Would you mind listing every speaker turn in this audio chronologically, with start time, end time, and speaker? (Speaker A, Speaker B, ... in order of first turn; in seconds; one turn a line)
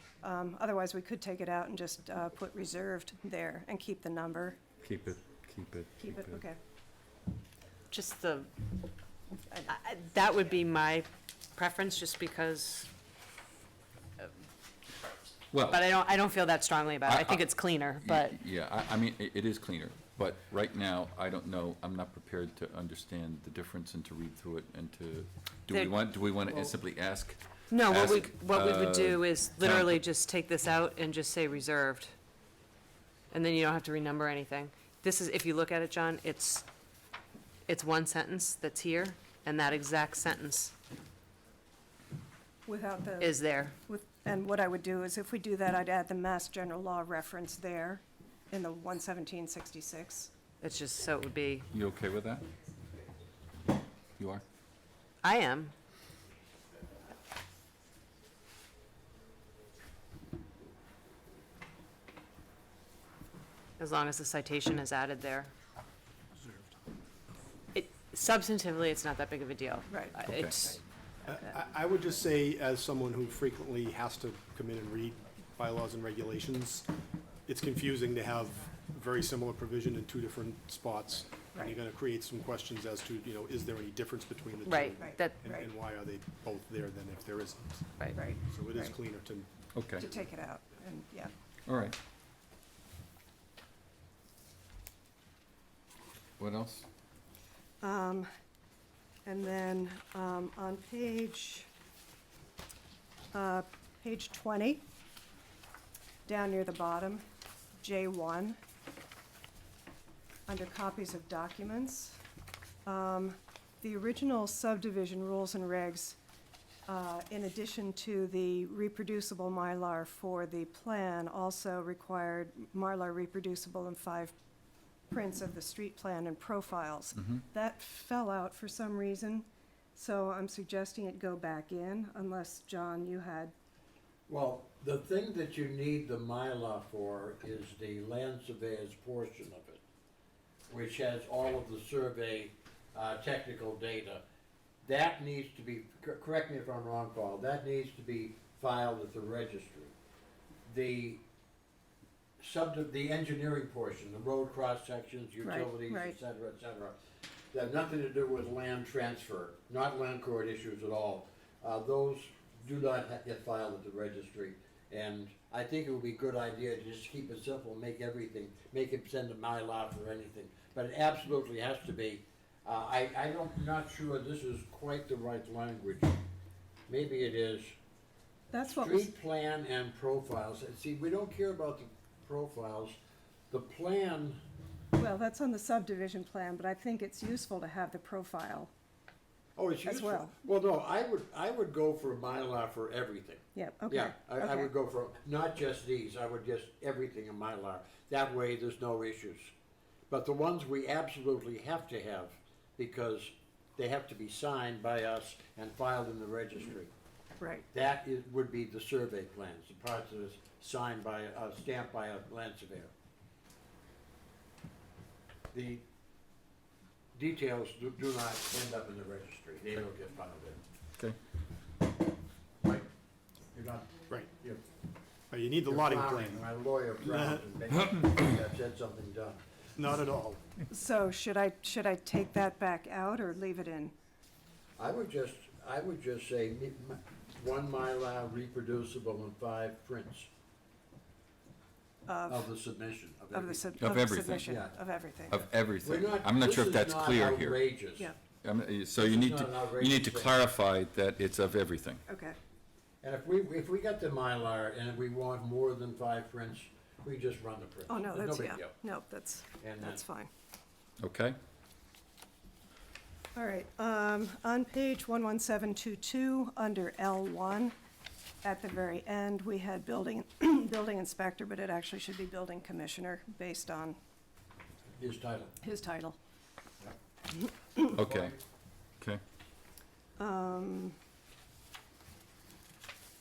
Speaker A: 0.2-4.6
Speaker B: 4.8-6.4
Speaker A: 6.0-6.6
Speaker C: 7.9-8.5
Speaker C: 9.7-12.9
Speaker B: 15.5-15.8
Speaker C: 15.7-18.3
Speaker B: 17.1-17.4
Speaker B: 18.0-30.0
Speaker C: 25.7-25.9
Speaker C: 27.7-32.1
Speaker C: 33.3-36.7
Speaker C: 37.7-40.7
Speaker A: 42.6-50.3
Speaker C: 43.2-43.8
Speaker C: 50.6-51.7
Speaker B: 51.7-52.5
Speaker B: 54.2-54.4
Speaker C: 55.2-55.7
Speaker C: 63.8-65.5
Speaker C: 67.7-70.8
Speaker A: 69.9-70.1
Speaker B: 70.3-70.6
Speaker D: 71.2-76.9
Speaker D: 77.5-89.5
Speaker C: 84.6-85.4
Speaker A: 85.0-85.7
Speaker A: 88.1-89.0
Speaker B: 89.7-90.1
Speaker A: 89.9-91.3
Speaker B: 91.7-92.0
Speaker B: 96.4-96.9
Speaker A: 97.8-98.3
Speaker A: 99.2-101.7
Speaker A: 103.3-104.8
Speaker A: 106.2-107.2
Speaker A: 107.8-108.6
Speaker A: 110.5-112.2
Speaker A: 112.8-116.2
Speaker A: 116.9-124.3
Speaker A: 125.1-133.5
Speaker E: 134.3-139.8
Speaker E: 140.7-144.2
Speaker E: 144.8-149.9
Speaker E: 150.7-151.2
Speaker E: 152.4-156.9
Speaker A: 155.4-156.2
Speaker E: 157.5-176.2
Speaker E: 176.9-177.8
Speaker A: 178.5-179.1
Speaker E: 178.7-183.0
Speaker E: 183.5-184.4
Speaker A: 185.0-188.7
Speaker E: 189.6-199.5
Speaker A: 189.8-190.3
Speaker A: 193.5-194.7
Speaker E: 200.1-206.9
Speaker A: 207.4-207.7
Speaker E: 207.7-212.9
Speaker E: 215.5-215.8
Speaker E: 217.1-220.6
Speaker E: 222.6-222.9
Speaker E: 223.5-224.6
Speaker D: 224.1-224.3
Speaker D: 225.3-227.5
Speaker E: 225.6-229.4
Speaker D: 229.7-230.4
Speaker A: 230.7-233.9
Speaker E: 234.8-240.3
Speaker A: 242.1-242.5
Speaker E: 242.3-243.7
Speaker A: 243.3-245.5
Speaker B: 243.8-244.6
Speaker E: 244.4-244.7
Speaker B: 245.3-247.7
Speaker E: 245.8-248.1
Speaker B: 248.4-252.0
Speaker E: 249.0-250.4
Speaker A: 252.1-252.4
Speaker E: 253.0-258.7
Speaker A: 257.9-260.3
Speaker E: 259.6-260.0
Speaker B: 261.0-261.4
Speaker A: 263.3-267.7
Speaker A: 268.4-274.0
Speaker E: 274.9-275.5
Speaker A: 275.6-276.2
Speaker B: 277.9-278.3
Speaker E: 277.9-278.3
Speaker A: 280.2-281.0